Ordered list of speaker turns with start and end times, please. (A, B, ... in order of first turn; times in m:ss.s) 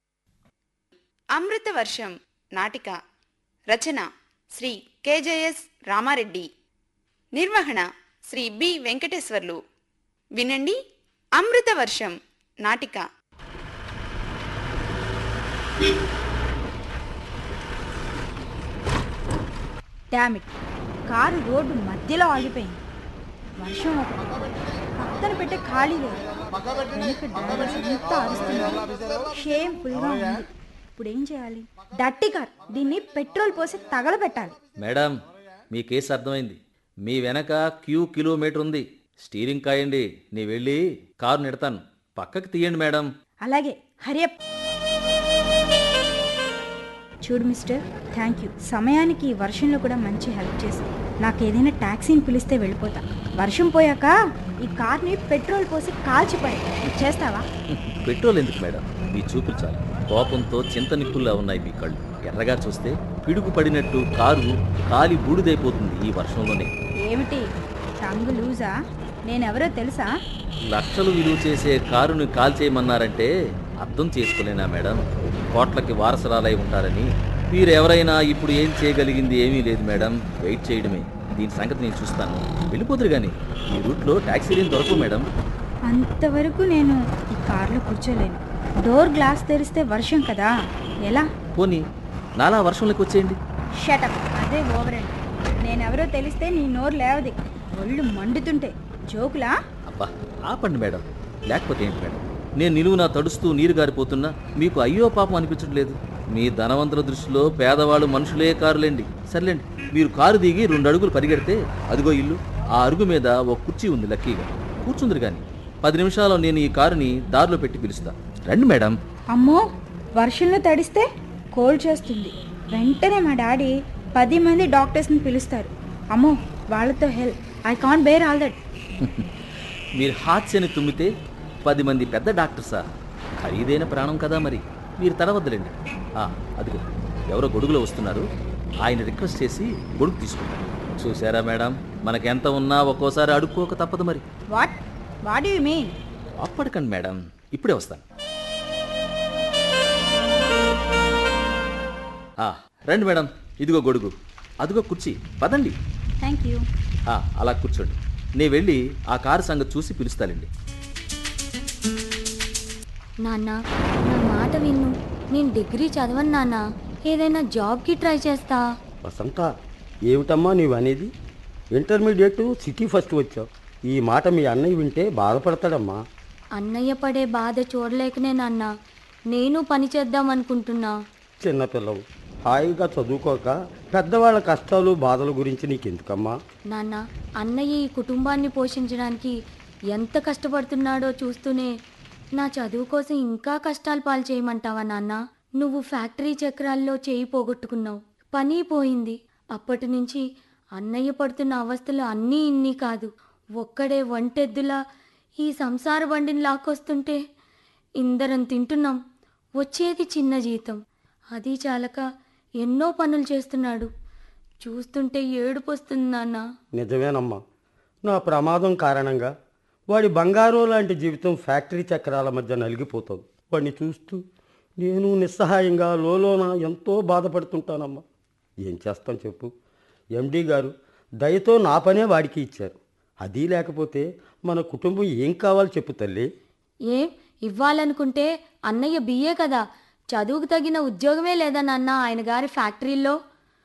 0:01.4-0:03.0 A
0:03.7-0:06.5 A
0:07.4-0:09.6 A
0:10.4-0:10.8 A
0:11.4-0:13.0 A
0:20.2-0:20.5 B
0:21.1-0:22.8 B
0:23.6-0:24.2 B
0:25.0-0:26.2 B
0:27.0-0:28.8 B
0:29.4-0:30.4 B
0:31.0-0:34.5 B
0:34.8-0:35.1 C
0:35.7-0:43.1 C
0:43.5-0:44.3 B
0:47.3-0:54.1 B
0:54.6-0:57.4 B
0:57.7-1:06.7 C
1:07.0-1:07.5 B
1:08.0-1:08.7 B
1:09.3-1:10.1 B
1:10.7-1:13.3 C
1:13.8-1:25.2 C
1:25.9-1:30.5 B
1:31.6-1:31.8 C
1:32.4-1:33.4 C
1:33.8-1:39.5 B
1:39.9-1:58.9 C
1:59.3-1:59.6 B
2:00.2-2:01.0 B
2:01.6-2:08.5 B
2:09.0-2:09.3 C
2:10.0-2:11.1 C
2:11.6-2:12.8 C
2:13.4-2:18.2 C
2:18.8-2:24.2 C
2:24.6-2:25.9 B
2:26.4-2:28.0 C
2:32.4-2:35.8 C
2:36.2-2:36.6 B
2:37.1-2:40.5 C
2:43.2-2:48.6 D
2:49.0-2:49.5 E
2:50.1-2:51.1 E
2:51.8-2:56.0 E
2:56.6-2:58.7 D
2:59.3-3:00.9 D
3:01.4-3:06.3 E
3:06.7-3:09.3 D
3:09.9-3:11.7 D
3:12.4-3:20.2 D
3:20.8-3:23.1 D
3:23.6-3:24.8 D
3:25.4-3:27.2 D
3:28.0-3:29.0 D
3:29.6-3:30.8 D
3:31.3-3:32.0 D
3:32.6-3:33.9 D
3:34.6-3:36.4 D
3:36.8-3:37.4 E
3:38.1-3:39.3 E
3:39.9-3:44.2 E
3:44.8-3:48.0 E
3:48.7-3:49.5 E
3:50.2-3:56.2 E
3:56.9-3:59.6 D
4:00.1-4:03.2 D